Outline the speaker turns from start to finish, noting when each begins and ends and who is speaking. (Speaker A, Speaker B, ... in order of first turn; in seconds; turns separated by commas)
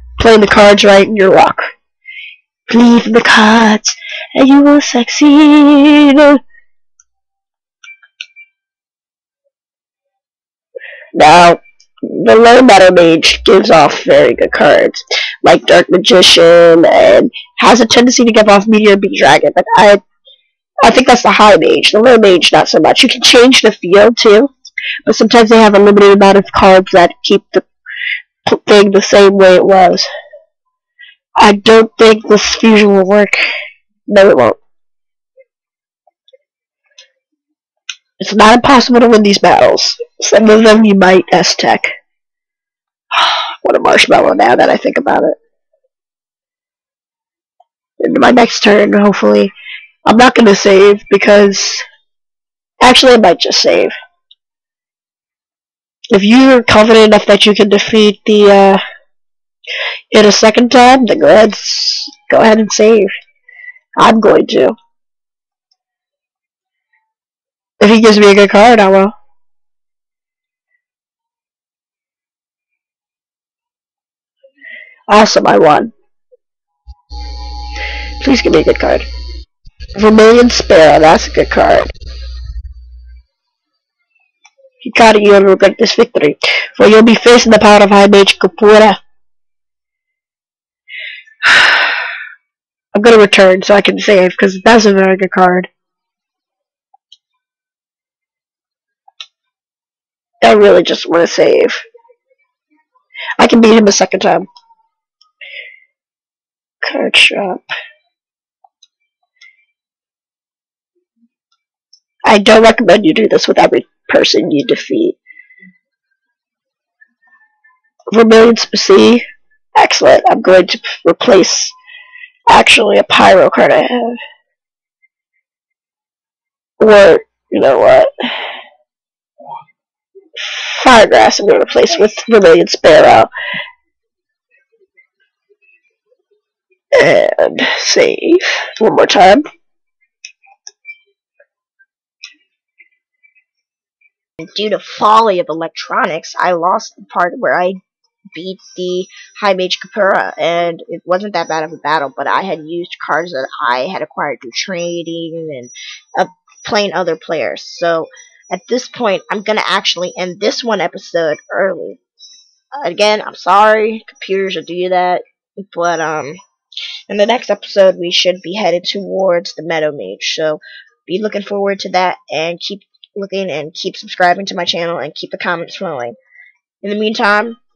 Speaker A: 0.2-1.7, Speaker A: 2.7-6.4, Speaker A: 11.1-20.0, Speaker A: 20.8-24.5, Speaker A: 25.1-27.7, Speaker A: 28.4-30.1, Speaker A: 31.4-33.4, Speaker A: 34.1-34.6, Speaker A: 38.2-41.9, Speaker A: 43.1-45.4, Speaker A: 48.0-49.5, Speaker A: 50.1-51.8, Speaker A: 52.8-54.0, Speaker A: 56.1-58.8, Speaker A: 60.1-63.1, Speaker A: 64.0-64.8, Speaker A: 67.8-69.1, Speaker A: 75.1-75.9, Speaker A: 78.2-79.0, Speaker A: 80.0-81.9, Speaker A: 84.8-89.0, Speaker A: 91.5-91.8, Speaker A: 92.9-95.7, Speaker A: 100.4-101.8, Speaker A: 103.4-104.5, Speaker A: 106.8-107.7, Speaker A: 112.2-115.2, Speaker A: 118.1-119.2, Speaker A: 119.8-121.7, Speaker A: 122.5-124.2, Speaker A: 126.8-128.1, Speaker A: 130.4-133.3, Speaker A: 136.9-139.4, Speaker A: 144.5-147.8, Speaker B: 144.8-147.5, Speaker A: 148.3-149.5, Speaker B: 148.5-155.7, Speaker A: 155.1-155.7, Speaker B: 156.2-162.0, Speaker B: 162.8-165.2, Speaker A: 163.8-164.2, Speaker B: 165.7-166.4, Speaker A: 167.1-170.6, Speaker B: 167.1-170.6, Speaker B: 171.1-176.1, Speaker A: 171.1-176.1, Speaker B: 176.8-177.6